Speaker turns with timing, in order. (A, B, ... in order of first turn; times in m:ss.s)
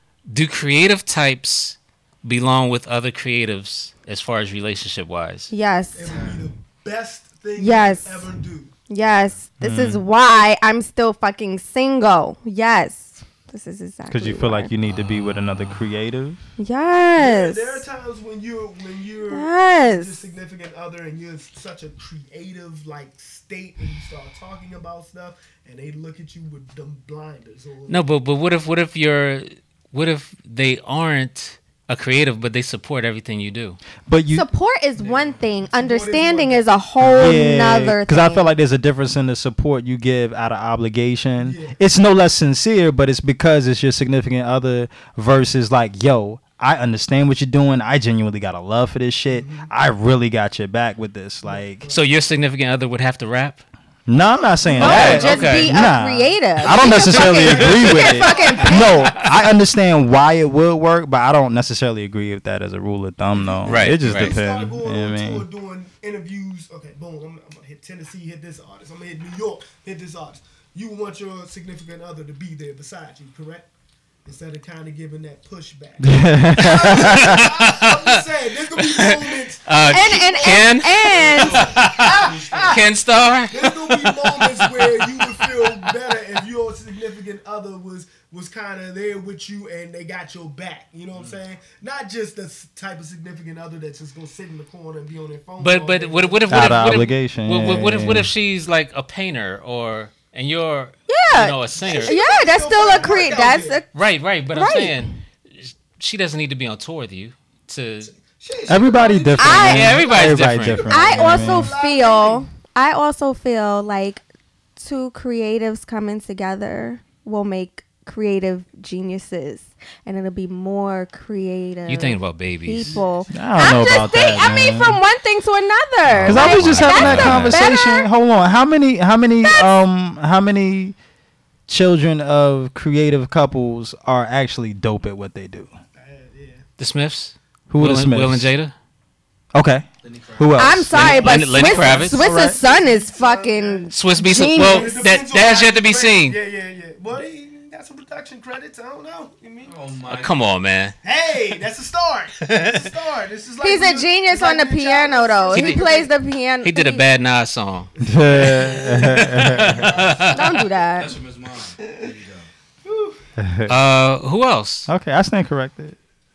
0:00.3-0:05.5 A
0:05.5-0:06.2 B
0:05.9-0:08.7 C
0:07.6-0:08.3 B
0:08.9-0:14.7 B
0:09.6-0:10.0 D
0:14.1-0:16.4 D
0:14.9-0:15.9 A
0:16.6-0:17.8 B
0:17.1-0:28.1 C
0:19.3-0:20.2 B
0:27.9-0:33.8 A
0:34.1-0:34.5 D
0:34.3-0:38.5 B
0:35.0-0:35.4 E
0:35.6-0:37.4 C
0:37.0-0:51.9 D
0:41.4-0:41.8 C
0:49.3-0:49.7 C
0:51.4-0:52.0 C
0:51.9-0:53.6 A
0:54.1-1:05.5 D
0:54.1-0:55.5 C
0:54.7-0:59.1 B
0:54.8-0:55.7 A
0:56.8-0:59.2 C
1:03.3-1:13.7 C
1:03.7-1:04.4 A
1:14.2-1:22.8 C
1:16.0-1:17.5 D
1:16.7-1:18.2 A
1:18.7-1:22.1 A
1:19.9-1:22.0 B
1:21.1-1:22.8 E
1:22.7-1:25.8 A
1:23.5-1:36.8 C
1:35.6-1:42.2 A
1:36.5-1:38.3 D
1:41.1-1:43.9 B
1:41.7-1:43.8 C
1:43.9-1:48.1 A
1:44.5-1:45.1 B
1:48.3-1:52.4 C
1:48.7-1:51.7 D
1:49.4-1:49.9 B
1:49.6-1:50.9 A
1:50.9-1:54.2 B
1:54.8-2:08.1 B
2:01.9-2:03.0 A
2:02.8-2:03.7 C
2:03.3-2:05.0 D
2:06.1-2:07.7 A
2:06.2-2:11.0 D
2:09.4-2:09.7 B
2:11.7-2:15.7 D
2:16.0-2:16.7 C
2:16.8-2:18.7 A
2:17.7-2:18.5 D
2:19.5-2:22.6 D
2:20.0-2:20.7 E
2:20.6-2:25.1 B
2:20.9-2:22.2 A
2:21.8-2:23.9 C
2:23.9-2:26.4 A
2:24.4-2:29.9 C
2:29.6-2:30.4 E
2:30.1-2:31.0 A
2:31.0-2:36.1 C
2:32.4-2:32.9 A
2:33.6-2:37.0 B
2:35.5-2:35.8 A
2:36.6-2:40.6 A
2:38.0-2:40.6 C
2:38.0-2:40.0 D
2:40.3-2:41.2 B
2:40.9-2:42.5 E
2:42.8-2:43.2 C
2:43.4-2:43.8 D
2:43.7-2:44.9 A
2:44.9-2:46.0 D